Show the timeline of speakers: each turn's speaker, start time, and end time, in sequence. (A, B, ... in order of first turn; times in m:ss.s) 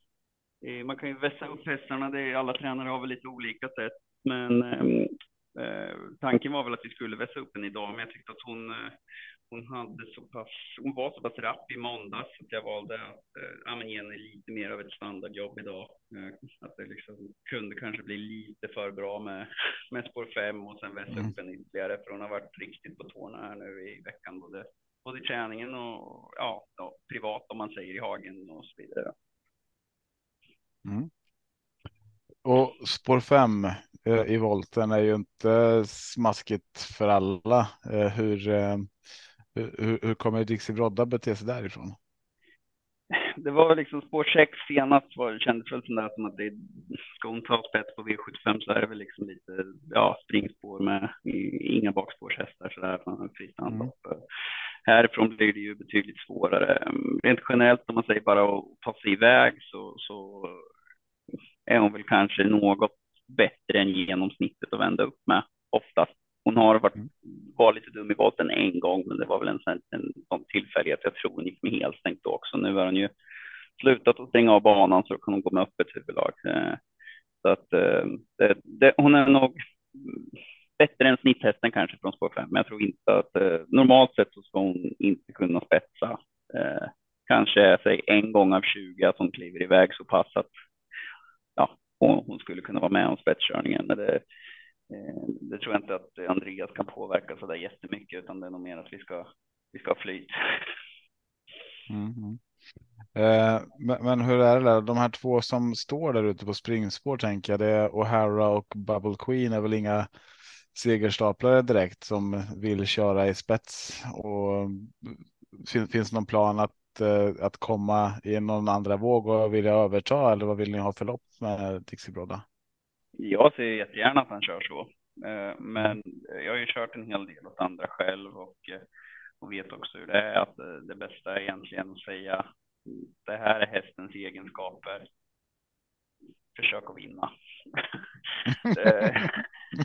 0:00.6-0:08.9 A
0:09.5-0:29.1 A
0:30.8-0:31.1 B
0:32.4-0:38.9 B
0:39.5-0:41.9 B
0:43.1-0:54.2 A
0:54.8-1:00.6 A
1:01.6-1:13.1 A
1:13.8-1:16.8 A
1:17.4-1:20.2 A
1:20.8-1:30.5 A
1:31.6-1:34.2 A
1:34.9-1:40.3 A
1:41.9-1:42.4 B
1:43.1-1:50.1 B
1:50.7-2:02.4 B
2:03.2-2:08.8 A
2:09.4-2:15.1 A
2:16.5-2:17.8 A
2:18.6-2:19.4 A
2:18.8-2:19.2 B